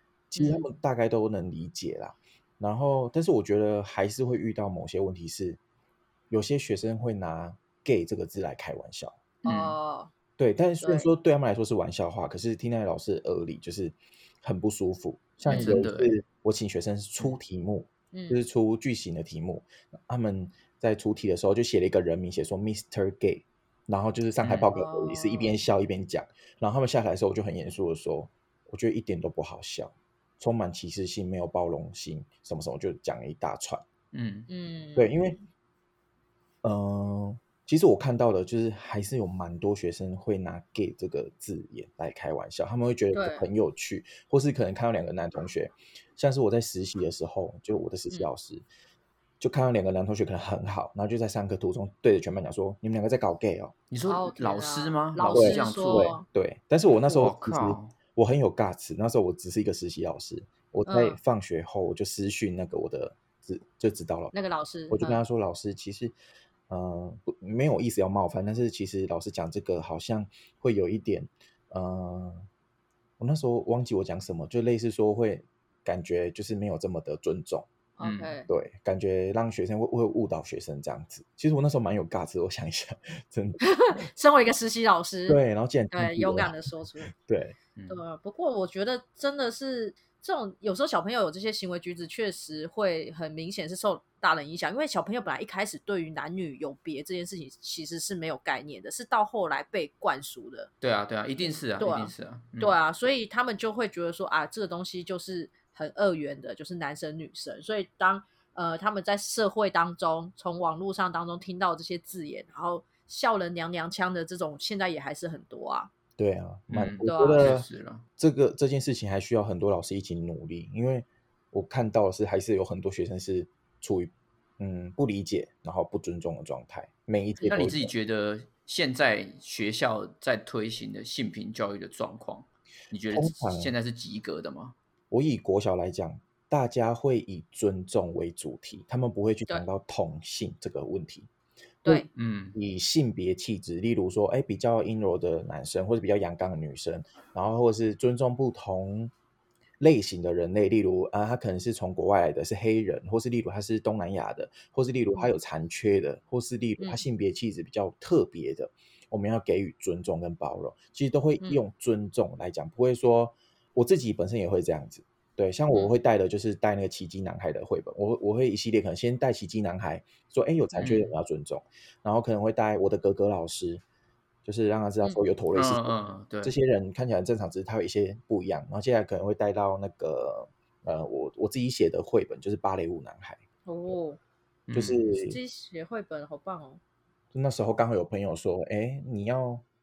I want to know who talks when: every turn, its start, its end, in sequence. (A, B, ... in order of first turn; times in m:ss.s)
0:00.3-0:05.6 A
0:00.4-0:00.6 B
0:06.3-0:09.2 A
0:09.4-0:10.1 B
0:09.4-0:09.7 C
0:10.4-0:33.8 A
0:10.8-0:11.1 B
0:15.4-0:15.8 B
0:15.4-0:16.1 C
0:18.1-0:18.4 B
0:24.4-0:24.7 C
0:24.7-0:25.6 B
0:34.1-0:34.5 C
0:34.5-0:35.4 B
0:35.0-0:35.4 A
0:36.6-0:48.6 A
0:43.1-0:43.5 B
0:49.4-0:53.7 A
0:53.9-0:56.2 C
0:54.1-0:56.2 B
0:55.3-1:04.3 A
0:57.1-0:57.9 C
1:00.8-1:01.2 B
1:04.3-1:05.2 B
1:04.9-1:06.1 A
1:06.7-1:12.5 A
1:13.2-1:17.7 A
1:18.0-1:18.5 B
1:18.0-1:18.3 C
1:18.5-1:24.0 A
1:23.6-1:25.4 B
1:25.3-1:26.6 A
1:25.9-1:27.1 B
1:27.1-1:27.6 A
1:27.9-1:40.7 B
1:40.8-1:42.8 C
1:41.4-1:55.9 B
1:56.2-1:57.7 A
1:56.7-1:58.0 C
1:57.0-1:57.5 B
1:58.2-2:07.9 A
2:07.4-2:07.7 B
2:07.5-2:14.8 C
2:13.1-2:13.7 A
2:15.1-2:21.3 A
2:21.8-2:29.1 A
2:22.1-2:22.6 C
2:29.8-2:53.8 A
2:50.8-2:51.1 C
2:54.4-3:03.9 A
2:55.5-2:56.5 C
3:03.6-3:04.2 B
3:04.7-3:05.0 C
3:04.7-3:05.4 A
3:05.2-3:06.8 B
3:07.3-3:09.6 A